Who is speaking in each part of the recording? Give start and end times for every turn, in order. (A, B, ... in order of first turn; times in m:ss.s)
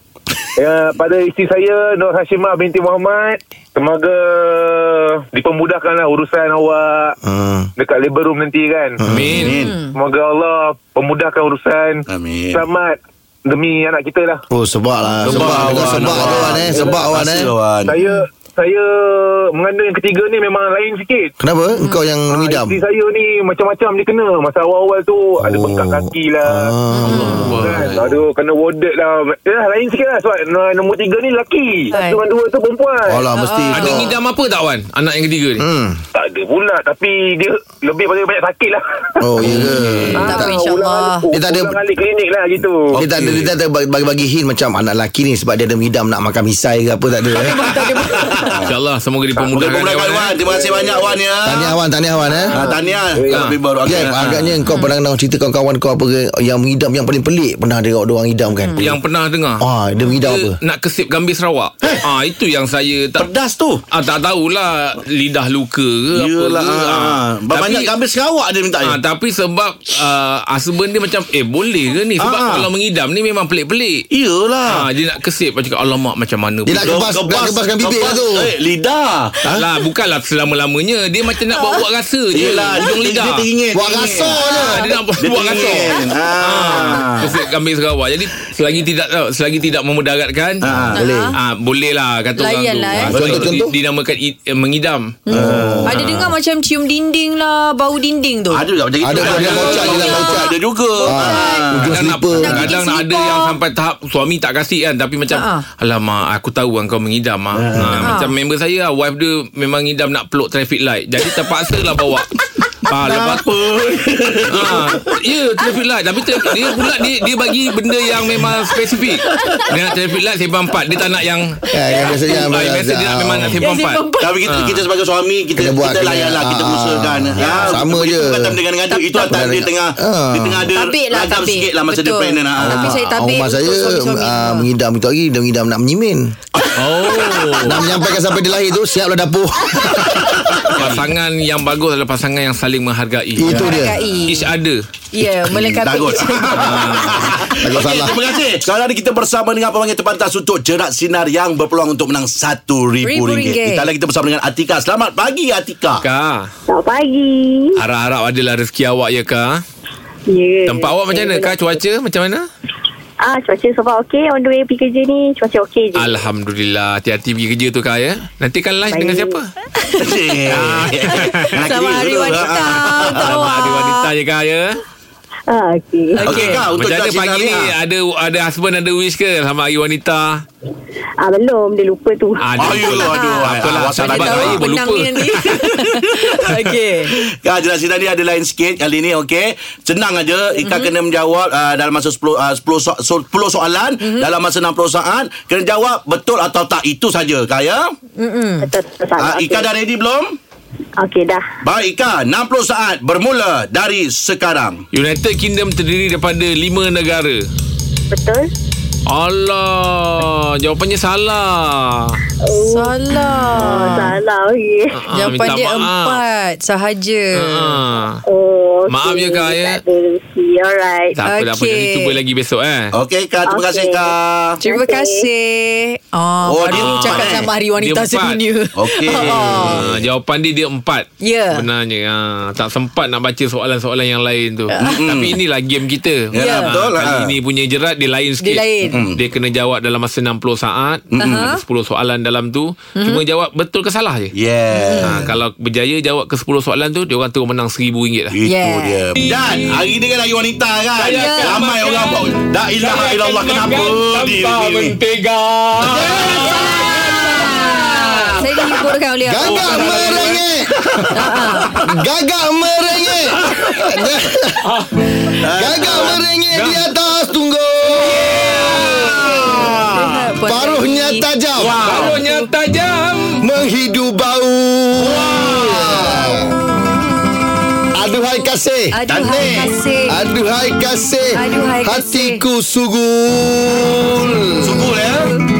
0:00.6-0:07.2 A
0:07.2-0:07.7 B
0:07.8-0:09.0 A
0:09.0-0:09.5 B
0:09.1-0:09.6 C
0:09.4-0:09.8 D
0:09.6-0:10.0 E
0:09.9-0:14.4 A
0:12.1-0:12.6 D
0:14.5-0:17.5 B
0:15.2-0:18.0 D
0:15.3-0:16.8 C
0:16.7-0:17.1 A
0:17.8-0:21.4 A
0:18.0-0:18.2 E
0:21.4-0:22.8 B
0:22.3-0:26.8 A
0:25.4-0:27.6 B
0:26.9-0:27.5 E
0:27.1-0:27.9 C
0:27.6-0:33.3 A
0:31.9-0:32.2 E
0:33.1-0:34.1 B
0:33.3-0:34.1 E
0:33.7-0:35.6 C
0:35.6-0:36.0 B
0:36.1-0:39.5 A
0:39.2-0:40.5 B
0:39.4-0:40.3 C
0:40.1-0:43.0 A
0:40.2-0:41.3 E
0:41.3-0:41.8 B
0:42.9-0:43.5 D
0:43.0-0:47.6 B
0:47.3-0:48.6 E
0:48.0-0:48.7 D
0:48.7-0:50.4 C
0:49.5-0:51.7 D
0:50.4-0:51.2 A
0:51.4-0:52.5 B
0:52.5-0:53.6 A
0:52.5-0:54.5 D
0:53.9-0:59.0 B
0:54.7-0:54.9 E
0:58.8-0:59.6 C
0:59.6-1:00.6 B
1:00.2-1:03.3 C
1:03.2-1:03.8 D
1:03.9-1:07.9 C
1:06.1-1:09.0 D
1:08.8-1:14.0 C
1:12.2-1:12.7 D
1:14.1-1:14.9 D
1:14.7-1:17.1 C
1:16.7-1:18.5 B
1:16.8-1:19.6 D
1:19.5-1:23.4 C
1:22.3-1:24.4 D
1:23.7-1:24.9 B
1:24.1-1:25.0 E
1:24.6-1:30.6 C
1:25.2-1:27.4 D
1:30.6-1:31.0 D
1:30.7-1:31.4 B
1:30.9-1:31.4 E
1:31.4-1:35.2 C
1:32.4-1:33.1 E
1:33.1-1:33.7 B
1:33.1-1:33.6 D
1:35.3-1:38.6 E
1:35.3-1:36.0 D
1:35.4-1:36.1 B
1:35.9-1:36.3 C
1:38.5-1:42.0 D
1:39.0-1:40.5 B
1:39.2-1:40.3 C
1:39.5-1:40.3 E
1:41.0-1:41.7 E
1:41.1-1:42.7 B
1:41.9-1:52.3 C
1:42.4-1:43.6 E
1:42.5-1:42.8 D
1:45.3-1:45.6 E
1:47.5-1:48.2 D
1:48.0-1:48.3 E
1:52.9-1:53.5 C
1:52.9-1:55.2 D
1:54.5-2:01.6 C
1:59.3-1:59.7 D
2:01.7-2:03.6 B
2:02.1-2:04.8 C
2:03.6-2:04.4 E
2:04.2-2:12.9 D
2:05.6-2:08.6 B
2:07.4-2:07.8 E
2:08.9-2:09.3 E
2:09.2-2:10.8 B
2:10.7-2:14.7 E
2:12.6-2:16.3 B
2:16.6-2:17.5 D
2:16.8-2:17.8 C
2:17.6-2:20.4 B
2:20.4-2:21.1 D
2:20.8-2:23.7 C
2:23.4-2:24.2 B
2:23.4-2:24.4 E
2:24.3-2:24.8 C
2:25.1-2:27.2 E
2:25.5-2:36.0 D
2:26.6-2:27.3 C
2:27.6-2:28.2 B
2:33.0-2:33.9 E
2:36.0-2:36.5 C
2:36.7-2:37.8 F
2:37.8-2:39.6 C
2:40.3-2:41.6 F
2:40.7-2:42.5 C
2:43.2-2:46.2 F
2:46.0-2:49.5 C
2:48.9-2:49.4 F
2:49.8-2:50.1 E
2:50.0-2:53.5 D
2:50.5-2:51.7 C
2:51.3-2:54.1 E
2:53.0-2:54.8 C
2:55.5-2:56.2 F
2:56.1-2:56.6 E
2:56.3-2:57.7 D
2:56.3-3:00.4 C
3:01.2-3:02.5 F
3:02.4-3:05.5 C
3:02.6-3:04.6 D
3:03.1-3:03.5 E
3:04.0-3:07.1 E
3:06.0-3:06.4 D
3:07.2-3:17.9 D
3:10.6-3:10.9 E
3:14.0-3:14.3 E
3:18.2-3:18.7 E
3:18.6-3:19.7 F
3:19.2-3:20.4 D
3:21.0-3:21.5 F
3:21.6-3:24.8 D
3:24.9-3:27.4 C
3:28.1-3:28.5 F
3:29.1-3:32.2 C
3:32.4-3:35.0 F
3:32.6-3:34.1 E
3:35.0-3:36.2 C
3:35.1-3:37.8 E
3:37.4-3:38.2 C
3:38.2-3:41.2 F
3:38.9-3:39.8 C
3:41.2-3:42.9 C
3:41.2-3:42.2 E
3:42.9-3:44.6 D
3:43.5-3:45.3 F
3:44.6-3:49.8 E
3:46.4-3:47.5 D
3:46.7-3:48.4 C
3:48.8-3:50.0 D
3:49.2-4:04.3 C
3:51.2-3:51.6 E
3:54.7-3:55.0 E
3:54.8-3:55.4 D
3:56.3-3:57.4 D
3:56.4-3:56.8 E
3:58.4-3:59.0 E
3:58.8-3:59.2 D
4:01.1-4:01.5 D
4:01.2-4:01.6 E
4:03.0-4:03.2 E
4:04.3-4:05.3 D
4:04.7-4:05.2 E
4:05.0-4:08.3 C
4:08.3-4:15.0 D
4:08.4-4:09.0 E
4:09.2-4:09.8 C
4:11.0-4:18.4 C
4:11.1-4:11.6 E
4:15.8-4:17.3 D
4:16.2-4:20.0 E
4:19.3-4:20.6 B
4:19.4-4:20.4 C
4:19.6-4:20.1 D
4:20.8-4:21.8 D
4:21.1-4:21.8 E
4:21.8-4:24.7 B
4:25.4-4:26.2 D
4:25.6-4:29.2 B
4:26.5-4:26.8 C
4:28.0-4:29.5 C
4:29.1-4:31.3 E
4:29.1-4:30.1 D
4:30.5-4:31.8 B
4:31.6-4:32.2 D
4:31.7-4:33.4 C
4:31.9-4:32.5 E
4:33.4-4:36.6 B
4:35.0-4:36.0 D
4:35.4-4:36.0 C
4:36.6-4:37.4 E
4:37.9-4:38.9 B
4:38.9-4:40.2 E
4:39.1-4:39.7 D
4:40.1-4:44.9 B
4:41.3-4:42.4 E
4:44.6-4:45.3 D